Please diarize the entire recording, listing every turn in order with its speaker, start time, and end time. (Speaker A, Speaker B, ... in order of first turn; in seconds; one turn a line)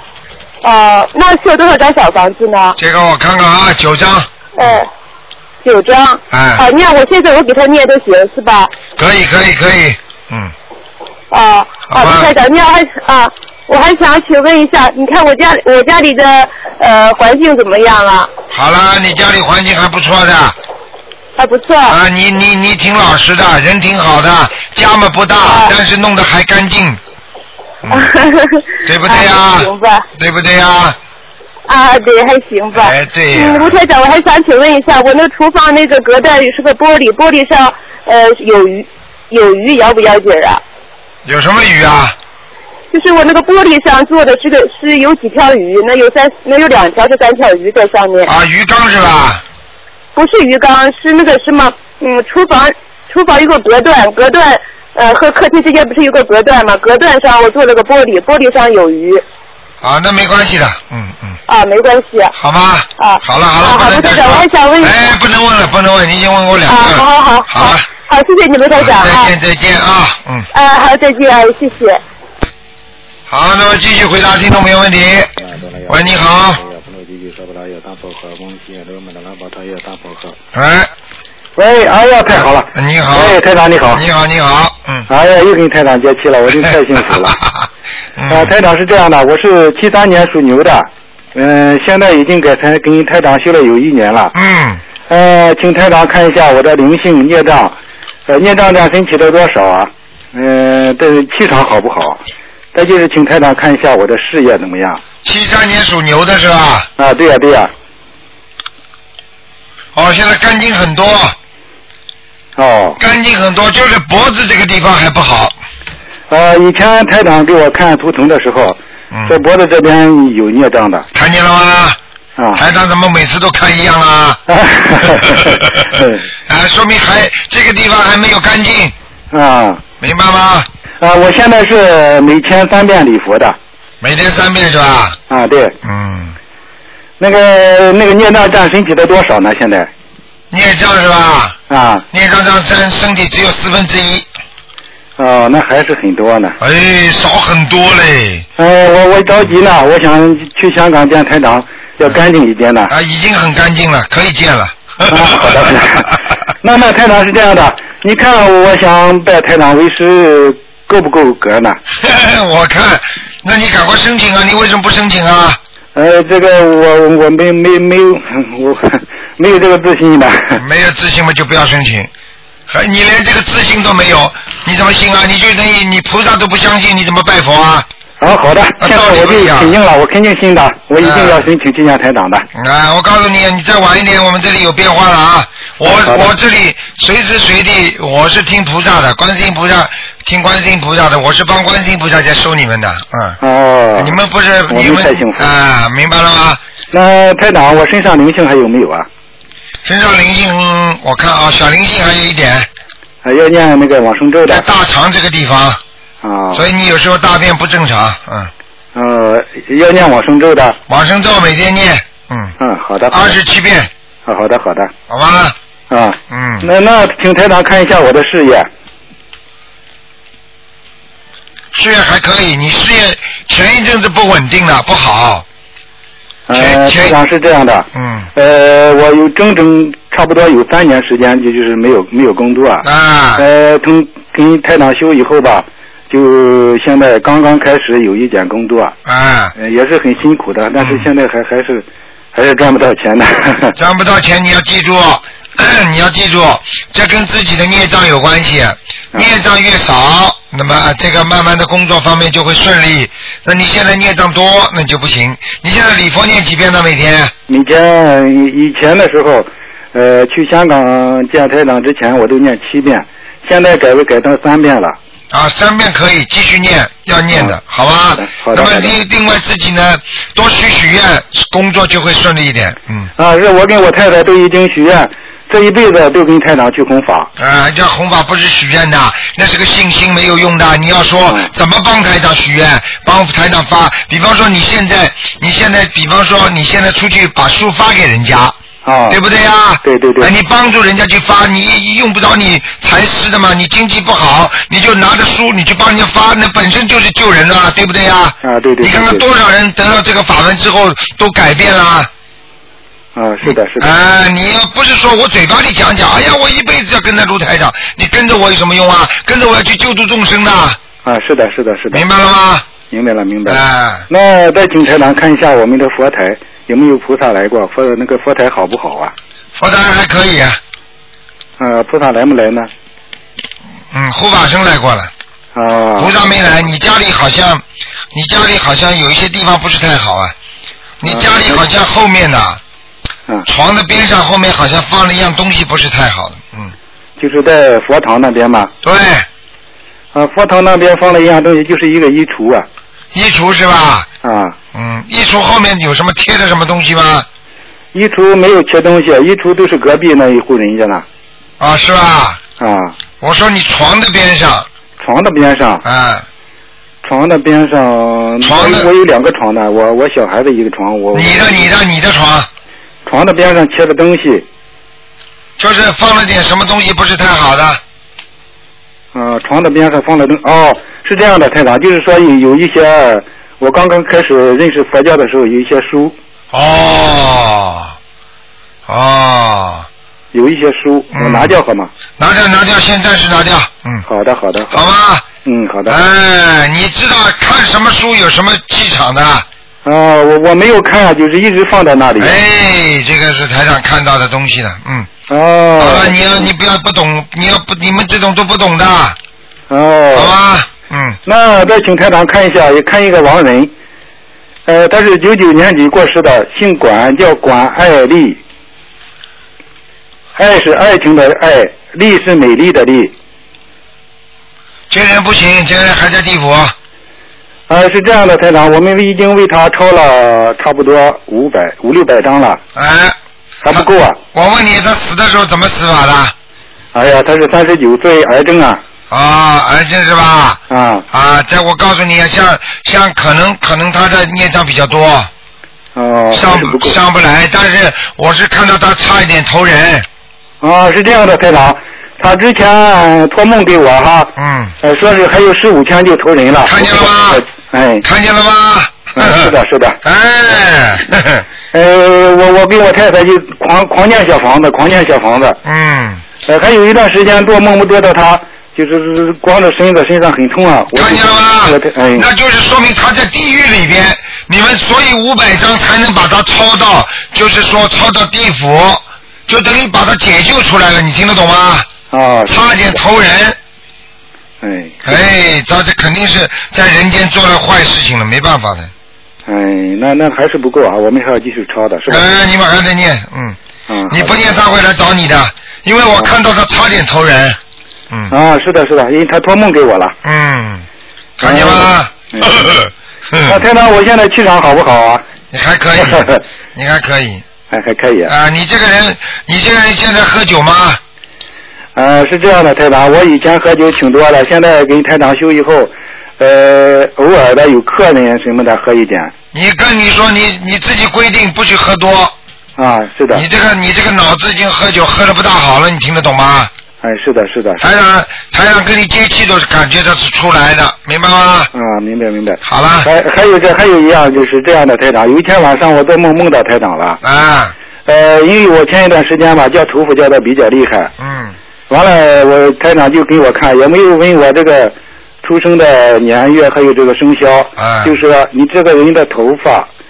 Speaker A: 0.6-2.8
Speaker B: 2.8-4.8
Speaker A: 4.6-4.9
Speaker A: 5.6-8.7
Speaker B: 6.3-6.6
Speaker B: 9.0-10.5
Speaker A: 11.3-18.3
Speaker B: 11.9-12.3
Speaker B: 18.5-20.6
Speaker A: 21.4-22.0
Speaker B: 21.9-27.0
Speaker A: 25.4-25.7
Speaker B: 27.8-28.1
Speaker A: 27.9-30.1
Speaker B: 28.8-31.0
Speaker A: 31.7-40.6
Speaker B: 32.7-33.8
Speaker B: 41.2-42.1
Speaker A: 42.9-48.3
Speaker B: 48.2-49.4
Speaker A: 50.1-59.2
Speaker B: 59.8-61.4
Speaker A: 61.5-62.3
Speaker B: 62.4-67.8
Speaker A: 63.0-65.1
Speaker A: 66.7-69.3
Speaker B: 68.8-70.5
Speaker A: 70.5-72.0
Speaker B: 73.3-75.3
Speaker C: 75.4-80.3
Speaker B: 75.9-76.6
Speaker B: 80.5-80.9
Speaker C: 81.6-84.0
Speaker B: 82.7-83.3
Speaker B: 83.9-85.1
Speaker C: 85.1-87.3
Speaker B: 87.3-87.7
Speaker B: 88.2-88.5
Speaker C: 88.3-94.3
Speaker B: 94.3-94.8
Speaker C: 95.1-97.8
Speaker C: 98.3-102.2
Speaker C: 102.7-105.0
Speaker B: 105.2-106.9
Speaker C: 107.0-107.7
Speaker B: 109.9-111.3
Speaker C: 112.6-113.0
Speaker B: 113.0-115.5
Speaker C: 116.3-121.1
Speaker B: 121.1-122.0
Speaker C: 122.4-122.6
Speaker B: 122.5-124.4
Speaker C: 124.5-126.2
Speaker B: 125.1-125.9
Speaker B: 126.5-128.9
Speaker C: 129.3-129.8
Speaker B: 130.0-130.7
Speaker C: 131.0-133.6
Speaker B: 134.0-135.2
Speaker C: 135.3-135.7
Speaker B: 135.8-136.3
Speaker C: 137.2-139.9
Speaker B: 140.5-141.6
Speaker C: 141.7-142.0
Speaker B: 142.1-144.2
Speaker C: 145.2-146.6
Speaker B: 146.6-148.4
Speaker C: 148.6-152.9
Speaker B: 152.9-155.8
Speaker C: 155.1-161.8
Speaker B: 162.0-165.6
Speaker C: 165.9-170.6
Speaker B: 170.6-172.1
Speaker B: 172.7-177.9
Speaker C: 178.2-182.5
Speaker B: 178.8-179.7
Speaker B: 181.0-181.4
Speaker B: 182.5-193.4
Speaker C: 185.8-186.3
Speaker C: 193.4-195.5
Speaker B: 193.9-196.6
Speaker C: 196.9-199.1
Speaker B: 199.8-202.7
Speaker C: 203.2-204.7
Speaker B: 204.5-205.8
Speaker C: 206.2-206.7
Speaker B: 206.5-208.5
Speaker C: 208.9-210.8
Speaker B: 210.9-212.5
Speaker C: 212.6-213.4
Speaker B: 213.1-213.9
Speaker C: 214.2-214.9
Speaker B: 215.1-215.5
Speaker C: 215.9-218.7
Speaker B: 216.3-216.7
Speaker B: 221.7-225.4
Speaker C: 226.5-232.8
Speaker B: 226.5-227.2
Speaker B: 227.9-228.3
Speaker B: 232.8-233.4
Speaker C: 233.4-238.9
Speaker B: 239.0-239.5
Speaker C: 239.6-243.8
Speaker B: 240.8-241.1
Speaker B: 243.8-257.3
Speaker C: 257.5-265.0
Speaker B: 265.3-273.1
Speaker C: 267.3-267.6
Speaker C: 268.1-268.9
Speaker C: 273.2-277.3
Speaker B: 277.4-288.6
Speaker C: 288.8-289.2
Speaker B: 289.1-302.1
Speaker C: 289.8-290.3
Speaker C: 298.4-299.2
Speaker C: 303.1-303.9
Speaker B: 303.4-310.8
Speaker C: 311.0-312.0
Speaker B: 311.9-312.7
Speaker C: 312.8-319.1
Speaker B: 313.5-314.1
Speaker B: 319.6-320.6
Speaker C: 321.6-322.7
Speaker B: 323.9-325.1
Speaker C: 325.5-326.1
Speaker B: 326.0-330.3
Speaker B: 331.0-332.6
Speaker C: 331.0-331.6
Speaker B: 333.5-336.7
Speaker C: 337.2-338.7
Speaker B: 338.8-339.3
Speaker C: 340.1-342.7
Speaker B: 343.1-344.1
Speaker C: 344.2-344.6
Speaker B: 344.7-347.3
Speaker C: 347.9-351.0
Speaker B: 351.6-352.4
Speaker C: 352.6-352.9
Speaker B: 353.2-354.7
Speaker C: 355.0-355.8
Speaker B: 355.8-356.2
Speaker C: 357.0-361.7
Speaker B: 358.4-358.9
Speaker B: 361.1-362.5
Speaker C: 363.1-364.4
Speaker B: 365.6-367.8
Speaker C: 369.1-376.1
Speaker B: 376.5-377.9
Speaker B: 378.9-379.9
Speaker C: 380.3-381.9
Speaker B: 381.1-381.5
Speaker B: 382.2-384.0
Speaker C: 384.0-384.9
Speaker B: 384.7-385.3
Speaker C: 385.4-386.0
Speaker B: 385.9-389.4
Speaker C: 389.8-392.4
Speaker B: 392.2-395.1
Speaker C: 395.3-396.5
Speaker B: 395.8-399.2
Speaker C: 399.7-400.4
Speaker B: 400.1-401.2
Speaker C: 401.2-403.7
Speaker C: 404.6-408.4
Speaker C: 410.3-413.1
Speaker B: 414.9-416.7
Speaker C: 417.7-422.6
Speaker B: 422.7-423.2
Speaker C: 423.6-424.2
Speaker B: 423.7-426.3
Speaker C: 426.9-428.8
Speaker B: 429.1-435.3
Speaker C: 430.7-431.1
Speaker C: 435.9-437.0
Speaker B: 436.3-440.1
Speaker C: 440.6-448.0
Speaker B: 444.4-444.7
Speaker B: 446.6-447.4
Speaker B: 448.0-449.5
Speaker C: 449.1-450.0
Speaker B: 450.0-451.4
Speaker C: 451.7-455.6
Speaker B: 455.6-456.2
Speaker C: 456.4-462.3
Speaker B: 460.9-471.9
Speaker C: 472.1-472.6
Speaker B: 472.5-473.6
Speaker C: 474.6-475.2
Speaker B: 475.0-478.9
Speaker C: 479.5-482.3
Speaker B: 482.1-483.6
Speaker C: 483.9-484.4
Speaker B: 484.1-487.6
Speaker C: 488.3-490.1
Speaker B: 490.2-490.9
Speaker B: 491.4-493.6
Speaker C: 491.4-492.7
Speaker C: 493.4-495.2
Speaker B: 495.5-497.4
Speaker C: 496.0-496.4
Speaker C: 497.7-498.3
Speaker B: 498.3-501.0
Speaker C: 501.9-509.3
Speaker B: 509.5-512.3
Speaker C: 512.8-513.4
Speaker B: 513.3-516.7
Speaker C: 517.0-517.8
Speaker B: 517.8-521.7
Speaker C: 521.7-527.2
Speaker B: 522.6-523.1
Speaker B: 527.2-527.7
Speaker C: 528.0-531.1
Speaker B: 531.2-531.5
Speaker C: 531.9-539.9
Speaker B: 537.8-538.1